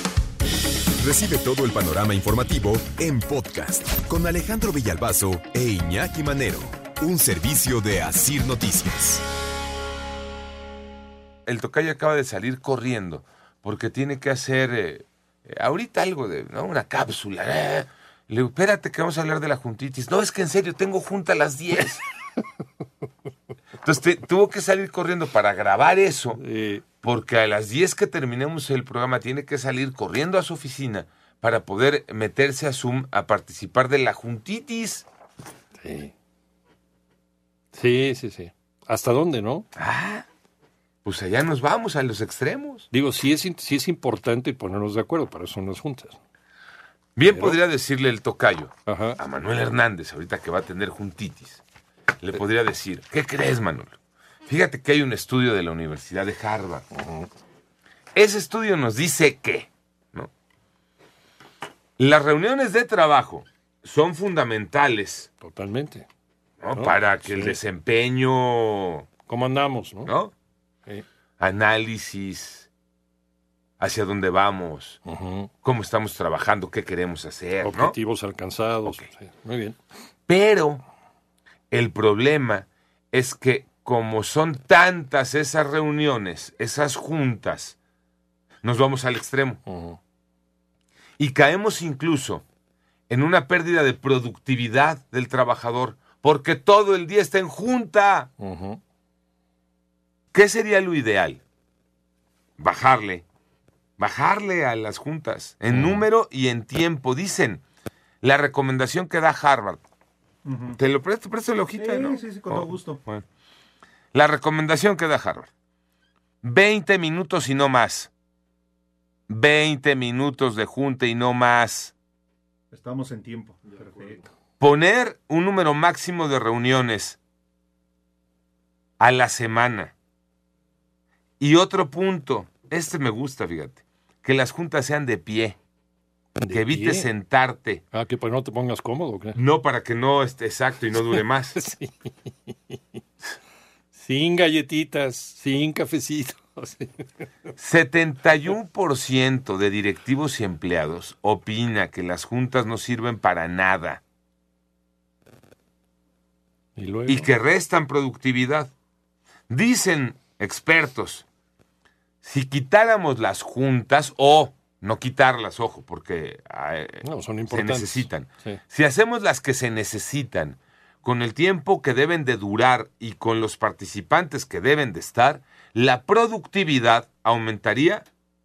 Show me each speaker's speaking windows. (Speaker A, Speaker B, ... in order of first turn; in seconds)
Speaker A: 1.0-9.2
Speaker B: 11.5-22.0, 23.8-26.4, 27.0-35.0, 39.8-40.3, 41.0-42.9, 47.2-51.6, 52.2-56.8, 58.1-60.3, 62.0-65.3, 66.6-69.1, 70.1-70.3, 71.4-72.7, 73.8-75.0, 75.6-78.0, 80.3-80.8, 81.7-87.8, 88.6-89.6, 91.2-92.4, 93.1-98.3, 100.3-101.4, 102.6-103.2, 104.0-107.6, 108.2-109.8, 110.8-113.2, 114.1-115.5, 116.4-118.1, 119.3-122.0, 124.6-127.2, 129.0-129.9, 131.4-135.6, 136.5-137.8, 139.3-141.6, 147.6-154.0, 157.1-158.7, 159.5-161.3, 162.2-178.1
Speaker C: 26.3-26.8, 35.8-36.1, 37.7-39.7, 42.9-46.2, 47.3-47.6, 48.9-49.2, 56.9-57.3, 65.4-66.1, 66.7-67.6, 69.3-70.1, 75.1-75.5, 77.6-79.8, 89.7-90.0, 98.4-98.8, 105.7-106.1, 123.7-124.2, 136.4-137.1, 137.9-139.4, 140.9-142.8, 143.9-146.9, 156.8-157.3, 167.0-168.6
Speaker D: 110.5-110.8, 111.7-113.0, 122.7-124.2